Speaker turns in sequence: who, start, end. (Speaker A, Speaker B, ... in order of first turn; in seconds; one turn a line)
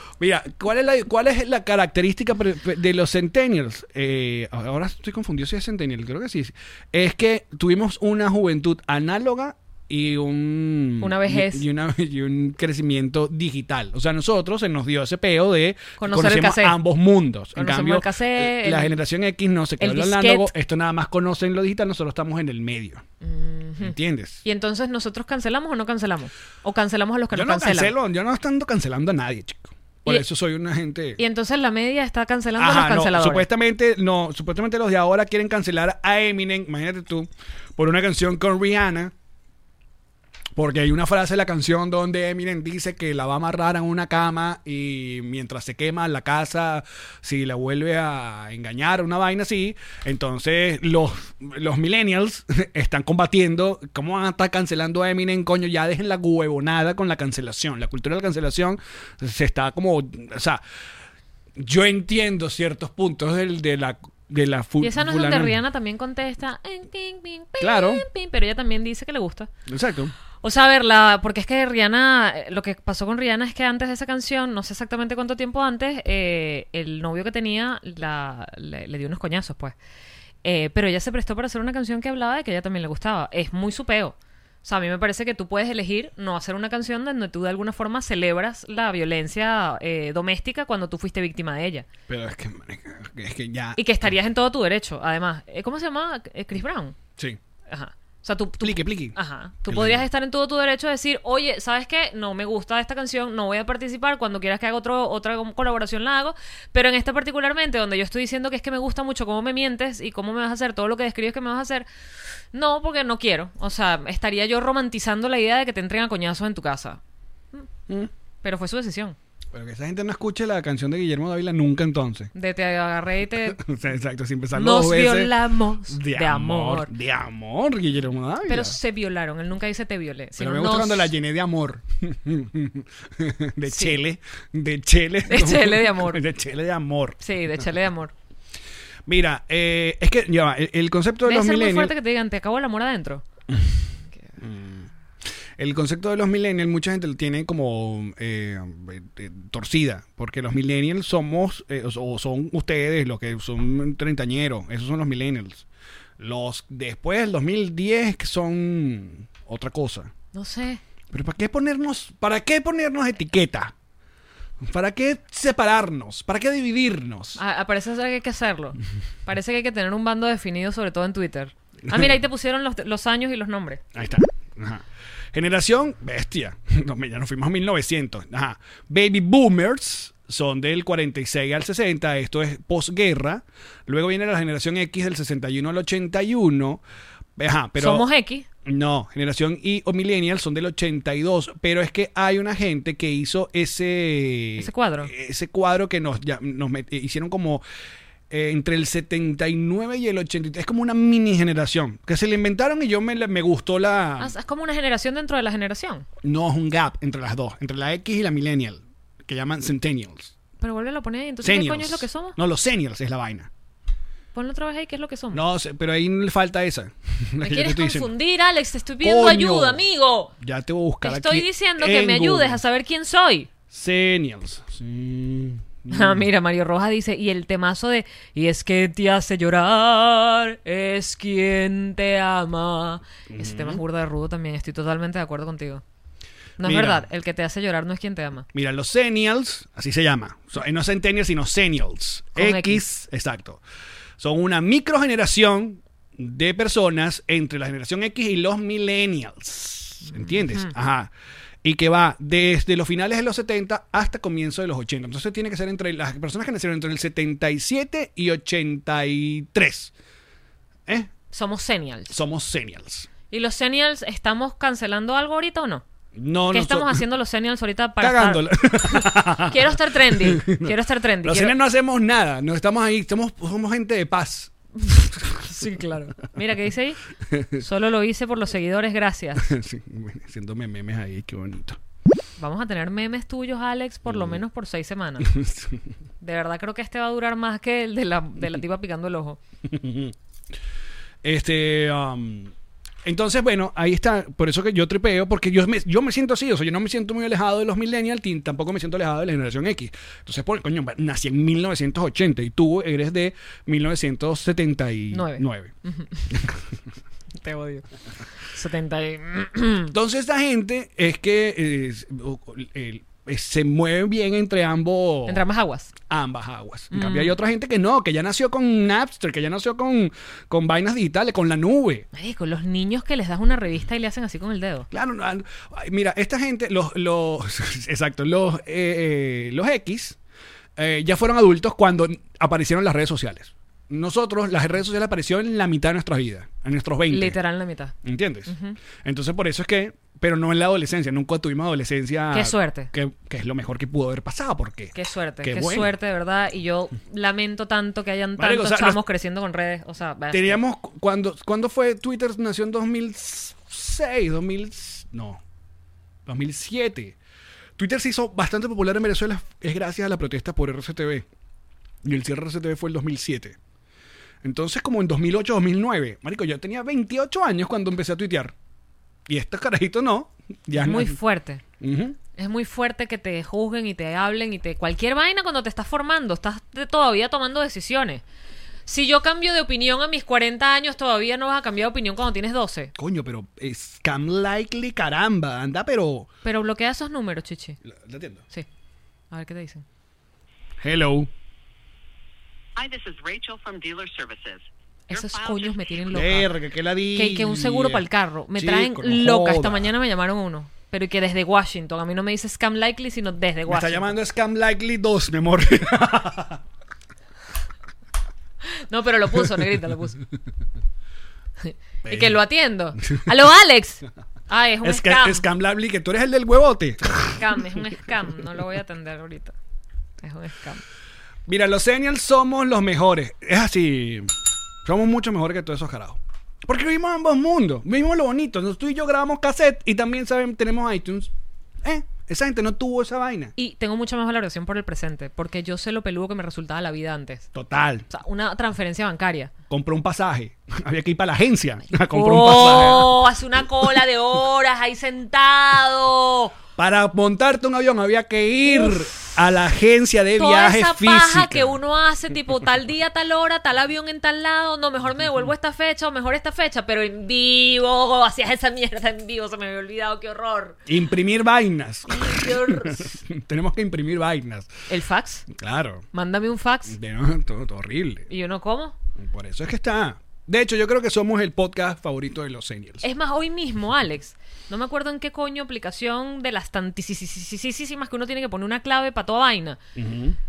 Speaker A: 0.2-23.0
Speaker B: 11.0-11.6
Speaker B: 16.0-16.8
Speaker B: 17.6-18.9
Speaker B: 19.8-20.5
Speaker B: 23.2-27.9
Speaker A: 23.8-24.4
Speaker A: 27.3-31.2
Speaker B: 31.2-33.5
Speaker A: 32.6-39.1
Speaker A: 40.5-60.6
Speaker A: 61.6-65.5
Speaker B: 64.8-69.5
Speaker A: 67.6-68.0
Speaker A: 69.7-70.1
Speaker B: 70.4-79.7
Speaker B: 80.4-91.9
Speaker A: 92.1-94.1
Speaker B: 93.8-97.0
Speaker B: 97.7-111.9
Speaker A: 98.6-99.2
Speaker A: 99.7-100.0
Speaker B: 112.5-117.0
Speaker B: 118.4-119.2
Speaker A: 119.5-122.3
Speaker B: 122.3-123.6
Speaker A: 123.4-125.3
Speaker B: 124.5-126.9
Speaker A: 125.9-128.8
Speaker B: 128.4-131.1
Speaker A: 130.4-137.7
Speaker B: 133.7-134.0
Speaker B: 135.3-136.2
Speaker B: 137.2-138.1
Speaker A: 139.1-141.9
Speaker B: 141.2-143.2
Speaker A: 143.5-143.8
Speaker A: 144.4-144.9
Speaker A: 145.6-155.6
Speaker A: 156.2-160.1
Speaker B: 160.3-160.8
Speaker A: 161.1-163.7
Speaker A: 164.6-167.4
Speaker B: 167.4-173.8
Speaker A: 173.9-186.8
Speaker A: 187.4-188.1
Speaker B: 187.8-188.4
Speaker A: 188.6-197.6
Speaker B: 194.6-195.1
Speaker A: 198.3-204.3
Speaker B: 204.2-206.0
Speaker A: 206.2-210.3
Speaker B: 210.6-212.3
Speaker A: 211.4-213.5
Speaker B: 214.3-215.4
Speaker A: 215.3-218.1
Speaker B: 217.4-220.3
Speaker A: 219.0-219.8
Speaker A: 220.4-222.6
Speaker B: 221.0-223.5
Speaker A: 223.7-226.3
Speaker B: 225.9-235.8
Speaker A: 233.3-233.8
Speaker B: 236.6-238.4
Speaker A: 236.6-237.1
Speaker A: 238.5-243.6
Speaker B: 242.3-242.8
Speaker A: 244.2-251.1
Speaker A: 251.6-259.9
Speaker A: 260.9-261.1
Speaker B: 261.3-262.1
Speaker A: 262.1-263.1
Speaker B: 263.3-265.8
Speaker A: 266.1-267.0
Speaker B: 266.5-271.5
Speaker A: 268.0-275.5
Speaker B: 275.4-277.0
Speaker A: 277.3-277.6
Speaker B: 277.6-279.5
Speaker A: 279.4-281.8
Speaker B: 282.4-285.3
Speaker A: 284.1-284.4
Speaker A: 285.2-285.8
Speaker B: 286.2-289.4
Speaker A: 289.6-290.1
Speaker A: 291.2-292.5
Speaker A: 293.0-305.7
Speaker B: 305.1-306.3
Speaker A: 306.3-306.6
Speaker B: 307.4-307.8
Speaker B: 308.4-309.9
Speaker A: 309.9-315.4
Speaker B: 315.3-315.9
Speaker A: 316.1-322.1
Speaker B: 316.9-317.3
Speaker B: 322.1-324.9
Speaker A: 324.9-330.2
Speaker A: 330.8-337.4
Speaker B: 337.1-337.9
Speaker A: 338.0-345.9
Speaker B: 338.5-338.8
Speaker B: 342.3-342.9
Speaker B: 344.9-350.6
Speaker A: 348.4-349.0
Speaker A: 350.3-355.4
Speaker A: 356.2-357.1
Speaker A: 357.8-361.2
Speaker A: 362.0-363.6
Speaker A: 364.4-368.5
Speaker A: 369.3-371.2
Speaker B: 370.8-371.6
Speaker A: 371.8-372.2
Speaker B: 372.3-378.2
Speaker B: 378.9-382.9
Speaker A: 382.9-386.3
Speaker B: 386.4-387.8
Speaker A: 387.8-388.4
Speaker B: 389.3-389.8
Speaker A: 390.8-391.3
Speaker C: 392.8-396.0
Speaker B: 395.1-396.5
Speaker A: 396.1-399.9
Speaker B: 397.1-404.1
Speaker A: 403.7-406.6
Speaker B: 408.7-410.2
Speaker B: 411.6-415.4
Speaker A: 412.0-412.4
Speaker A: 413.0-413.3
Speaker A: 414.8-417.8
Speaker B: 417.4-419.5
Speaker B: 420.2-420.8
Speaker A: 421.5-424.3
Speaker A: 424.8-431.3
Speaker A: 431.8-433.5
Speaker B: 433.6-437.5
Speaker A: 437.5-438.1
Speaker B: 438.1-439.5
Speaker A: 439.7-443.2
Speaker B: 442.1-446.5
Speaker A: 446.8-451.8
Speaker B: 450.4-460.8
Speaker A: 460.9-464.7
Speaker B: 462.1-463.2
Speaker B: 464.9-465.4
Speaker A: 465.5-466.1
Speaker B: 466.1-467.0
Speaker A: 466.9-468.3
Speaker B: 468.3-468.9
Speaker A: 469.2-473.1
Speaker B: 473.0-479.8
Speaker A: 479.9-480.4